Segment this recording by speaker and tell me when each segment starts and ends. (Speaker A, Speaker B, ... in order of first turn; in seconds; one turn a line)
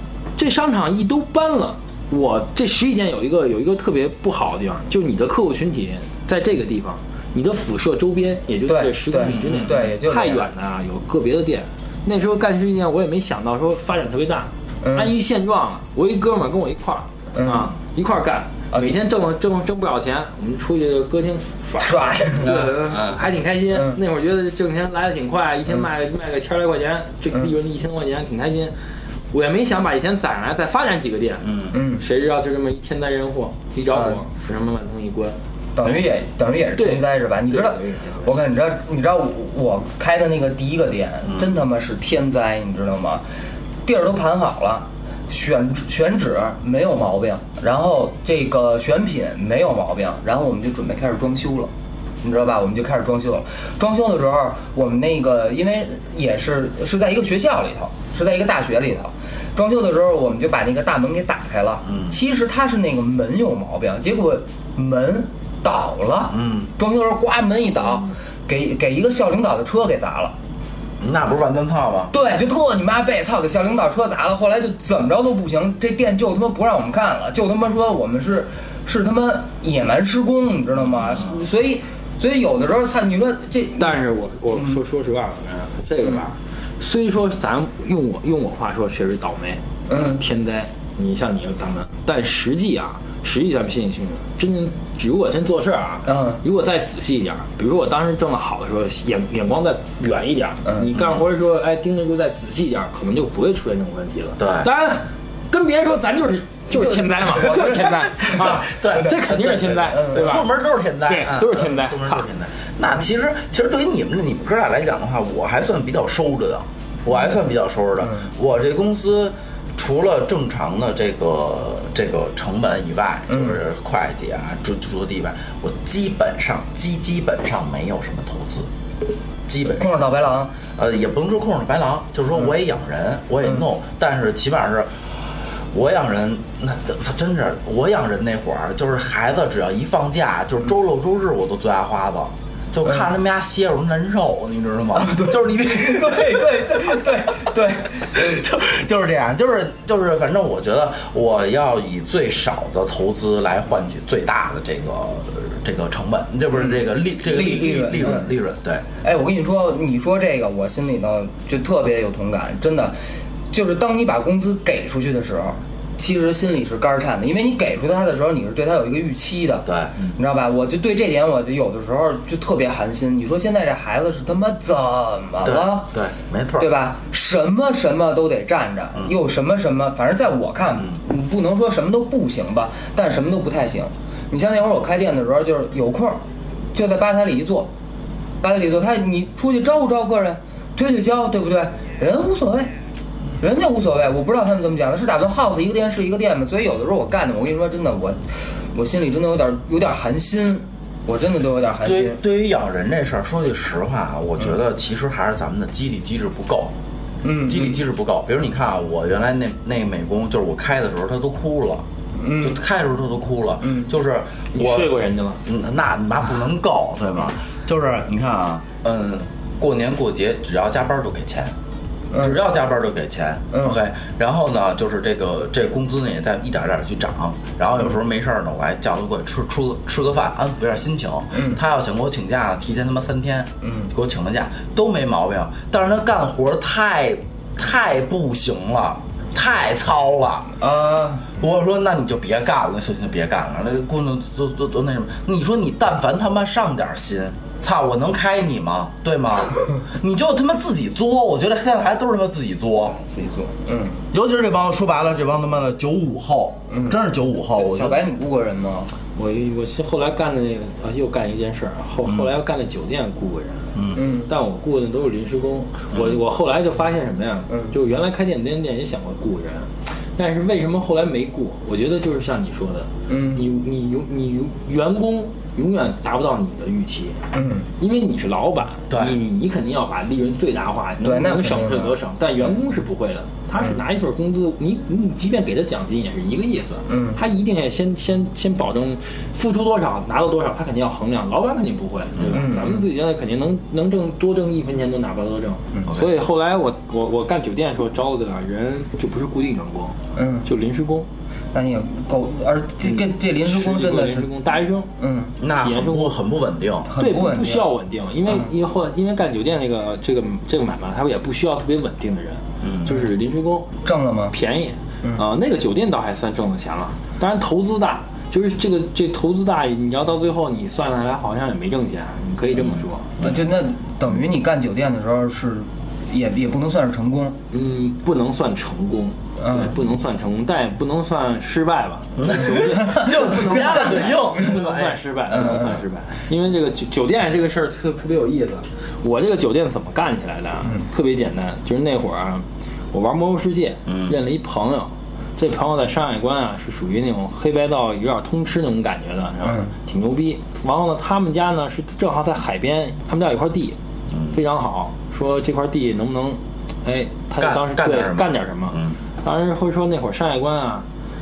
Speaker A: 0.4-28.7
Speaker B: 8.7-10.5
Speaker C: 9.2-9.8
Speaker B: 14.8-15.1
Speaker B: 17.3-17.7
Speaker B: 21.8-22.7
Speaker C: 22.5-23.2
Speaker B: 23.7-24.0
Speaker A: 29.3-36.0
Speaker C: 31.4-31.8
Speaker B: 31.7-32.0
Speaker B: 33.9-34.2
Speaker B: 35.8-43.2
Speaker A: 36.8-38.3
Speaker B: 43.8-51.7
Speaker B: 52.2-70.3
Speaker C: 61.9-62.2
Speaker C: 66.3-66.7
Speaker C: 71.0-72.1
Speaker B: 72.1-84.0
Speaker A: 83.8-110.5
Speaker B: 89.9-90.2
Speaker B: 96.0-96.4
Speaker C: 104.4-104.7
Speaker B: 106.7-108.5
Speaker C: 107.5-128.7
Speaker B: 109.9-110.4
Speaker A: 111.0-112.3
Speaker B: 123.3-123.6
Speaker C: 129.5-129.9
Speaker B: 129.7-130.5
Speaker C: 130.8-134.9
Speaker C: 135.7-158.8
Speaker B: 145.0-148.2
Speaker B: 156.6-158.3
Speaker B: 159.0-162.9
Speaker B: 163.5-175.9
Speaker C: 169.7-169.9
Speaker C: 175.4-176.7
Speaker B: 176.6-186.2
Speaker B: 186.7-187.7
Speaker B: 188.4-192.7
Speaker B: 193.4-198.2
Speaker B: 198.7-202.2
Speaker C: 201.8-206.7
Speaker B: 207.2-207.8
Speaker C: 207.4-211.8
Speaker B: 212.2-212.6
Speaker C: 212.4-214.9
Speaker B: 213.6-213.9
Speaker A: 214.5-215.4
Speaker C: 215.4-221.5
Speaker B: 222.1-222.4
Speaker C: 222.1-240.5
Speaker B: 223.5-223.8
Speaker B: 231.3-231.6
Speaker B: 233.6-233.9
Speaker B: 240.6-241.3
Speaker C: 241.4-253.0
Speaker B: 253.0-254.0
Speaker C: 254.1-258.1
Speaker B: 256.7-258.9
Speaker A: 259.1-277.2
Speaker C: 263.7-264.0
Speaker B: 263.9-264.3
Speaker B: 273.1-273.4
Speaker B: 277.3-277.7
Speaker A: 277.8-301.1
Speaker C: 278.9-279.1
Speaker B: 281.0-282.0
Speaker B: 286.9-287.2
Speaker B: 292.3-292.8
Speaker B: 300.1-300.5
Speaker B: 301.5-304.3
Speaker A: 302.8-304.9
Speaker B: 305.0-305.3
Speaker C: 305.4-306.9
Speaker A: 305.6-306.2
Speaker B: 306.9-307.7
Speaker A: 306.9-323.1
Speaker C: 312.6-312.9
Speaker B: 313.8-314.3
Speaker B: 323.2-327.4
Speaker A: 327.5-353.8
Speaker B: 329.4-329.7
Speaker C: 332.2-335.0
Speaker B: 332.8-334.5
Speaker B: 335.3-335.8
Speaker C: 343.9-344.1
Speaker B: 349.4-349.7
Speaker A: 354.3-360.9
Speaker C: 357.4-358.9